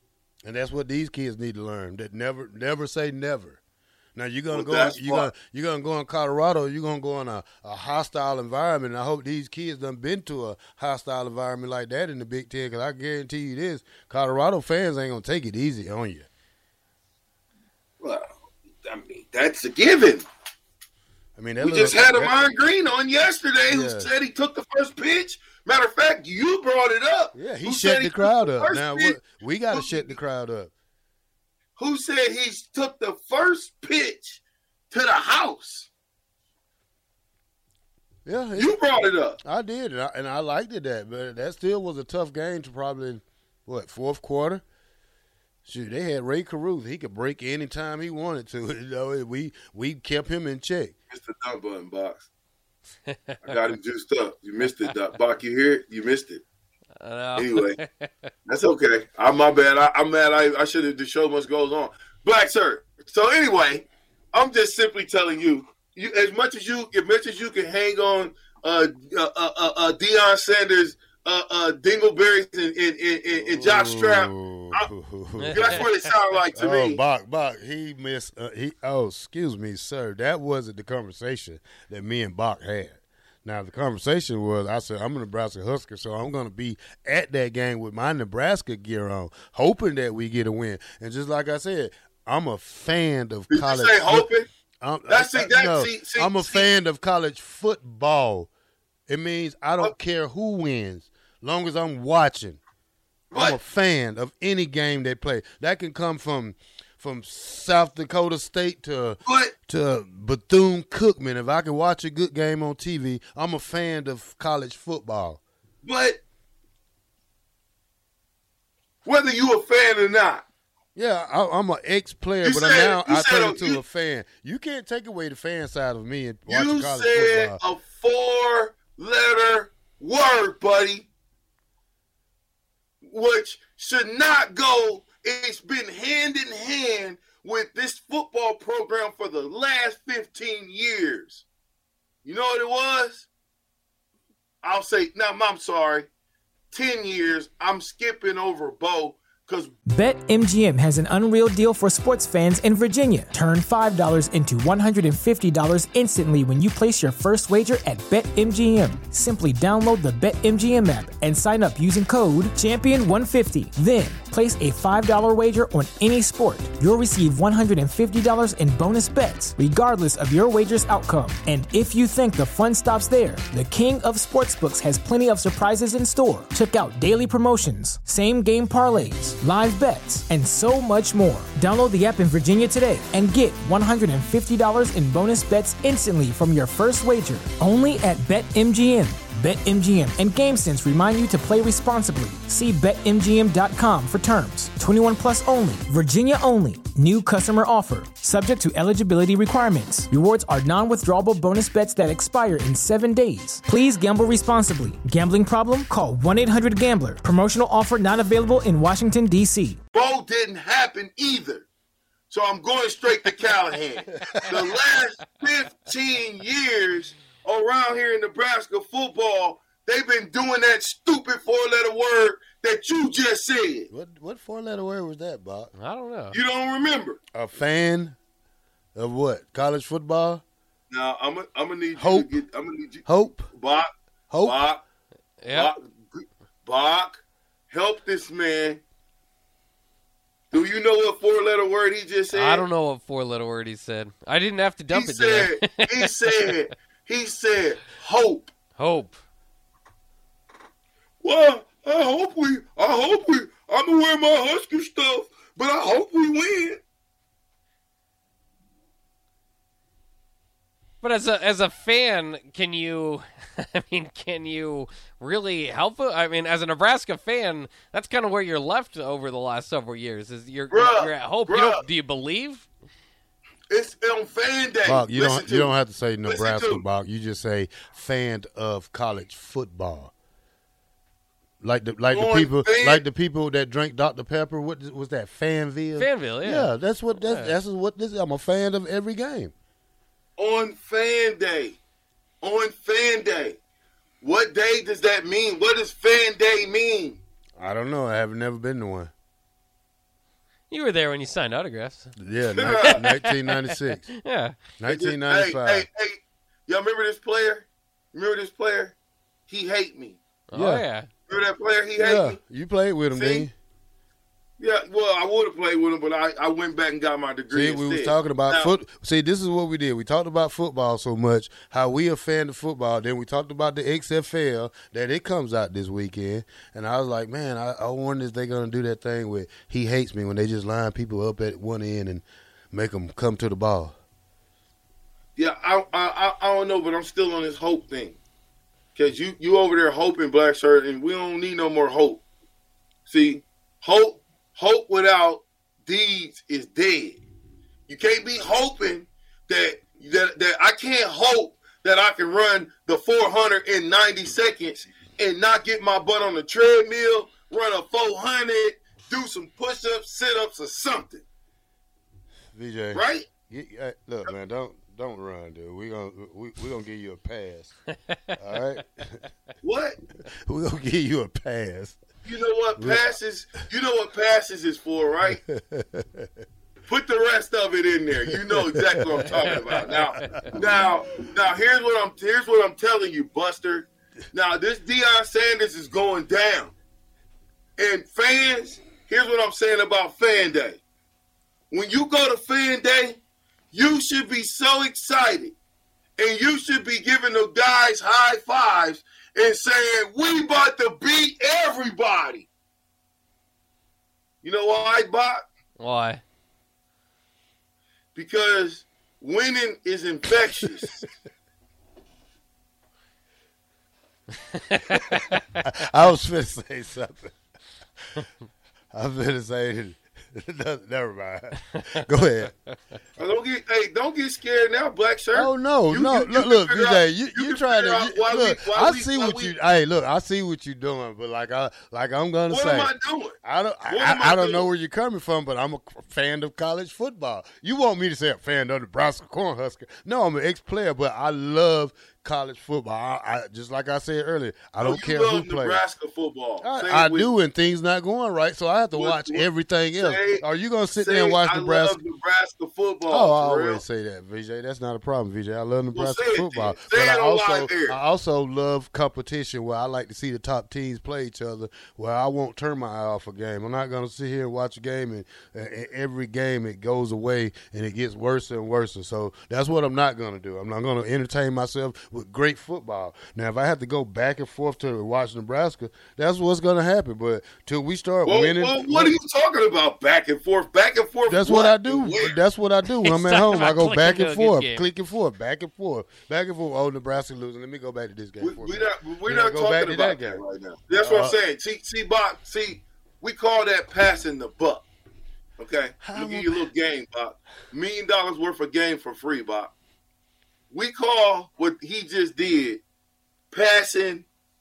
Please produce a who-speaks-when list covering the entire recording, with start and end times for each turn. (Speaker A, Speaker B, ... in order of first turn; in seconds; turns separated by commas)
Speaker A: 0.5-3.6, Speaker A: 4.2-16.3, Speaker B: 4.5-5.3, Speaker B: 18.0-18.3, Speaker B: 18.8-20.2, Speaker A: 21.4-22.4, Speaker B: 21.6-30.1, Speaker A: 23.7-24.1, Speaker A: 27.3-30.7, Speaker B: 31.8-34.4, Speaker B: 34.9-35.9, Speaker A: 38.2-38.8, Speaker B: 38.6-39.4, Speaker A: 39.4-44.6, Speaker A: 45.6-50.9, Speaker B: 51.1-52.3, Speaker C: 53.1-53.4, Speaker B: 53.4-56.4, Speaker C: 57.0-58.1, Speaker B: 57.4-57.8, Speaker B: 58.5-74.9, Speaker A: 73.4-75.8, Speaker C: 75.4-76.1, Speaker B: 75.5-77.0, Speaker A: 76.6-94.3, Speaker B: 93.5-94.5, Speaker A: 94.8-98.5, Speaker B: 95.1-96.7, Speaker A: 99.1-102.6, Speaker B: 103.3-103.6, Speaker A: 103.3-115.4, Speaker B: 109.3-109.5, Speaker B: 115.8-116.2, Speaker B: 119.0-120.5, Speaker A: 121.0-127.6, Speaker B: 122.4-123.8, Speaker B: 126.5-131.1, Speaker B: 133.0-141.4, Speaker B: 142.2-143.3, Speaker B: 144.6-146.1, Speaker B: 146.7-149.7, Speaker D: 149.9-209.8, Speaker B: 209.9-211.7, Speaker B: 212.3-223.9, Speaker A: 214.2-214.8, Speaker A: 223.9-225.7, Speaker C: 225.8-226.4, Speaker B: 226.3-227.2, Speaker A: 227.3-228.2, Speaker A: 229.0-230.4, Speaker B: 230.9-233.9, Speaker A: 232.0-232.3, Speaker A: 233.1-233.5, Speaker A: 234.3-234.6, Speaker B: 234.4-234.8, Speaker C: 235.4-235.7, Speaker B: 235.5-238.8, Speaker B: 240.5-242.7, Speaker C: 242.3-246.6, Speaker B: 244.9-248.5, Speaker C: 248.8-249.2, Speaker B: 251.2-256.8, Speaker C: 261.0-272.7, Speaker B: 270.7-271.8, Speaker B: 273.7-275.7, Speaker A: 274.8-280.1, Speaker B: 276.3-276.8, Speaker A: 281.6-289.5, Speaker B: 282.1-283.0, Speaker C: 286.0-287.5, Speaker B: 290.4-291.8, Speaker B: 292.4-293.6, Speaker B: 294.2-297.2, Speaker A: 297.6-299.1, Speaker C: 300.7-302.1, Speaker A: 302.2-304.1, Speaker B: 302.6-303.0, Speaker C: 302.9-304.7, Speaker A: 304.8-305.9, Speaker B: 304.9-308.9, Speaker B: 309.5-310.2, Speaker C: 310.5-311.1, Speaker A: 310.5-310.9, Speaker B: 311.3-312.4, Speaker A: 312.0-313.5, Speaker B: 313.1-313.5, Speaker B: 314.6-318.7, Speaker A: 317.5-334.0, Speaker B: 335.4-338.2, Speaker B: 339.0-342.2, Speaker B: 343.1-347.2, Speaker B: 347.9-361.2, Speaker A: 362.5-367.7, Speaker B: 362.9-363.3, Speaker A: 368.4-369.2, Speaker B: 369.6-370.0, Speaker A: 370.5-372.0, Speaker B: 372.3-375.4, Speaker A: 372.8-373.1, Speaker A: 375.3-376.4, Speaker B: 376.9-386.7, Speaker A: 378.3-379.5, Speaker A: 380.2-380.9, Speaker B: 387.8-390.8, Speaker B: 391.7-393.2, Speaker B: 393.7-395.6, Speaker B: 396.2-402.5, Speaker B: 404.4-405.4, Speaker C: 405.8-406.2, Speaker B: 408.1-411.0, Speaker C: 414.7-415.2, Speaker A: 415.6-417.4, Speaker A: 418.9-422.5, Speaker B: 423.2-429.5, Speaker A: 425.3-432.9, Speaker B: 432.5-434.7, Speaker A: 433.4-445.8, Speaker B: 444.8-447.3, Speaker A: 446.6-452.0, Speaker B: 449.0-450.4, Speaker B: 451.0-453.8, Speaker A: 453.1-479.2, Speaker B: 455.9-458.0, Speaker B: 478.2-482.4, Speaker A: 481.3-490.4, Speaker C: 483.0-484.8, Speaker B: 488.4-494.9, Speaker A: 490.9-491.4, Speaker B: 495.6-499.7, Speaker A: 496.0-496.7, Speaker B: 500.7-502.8, Speaker B: 503.5-504.3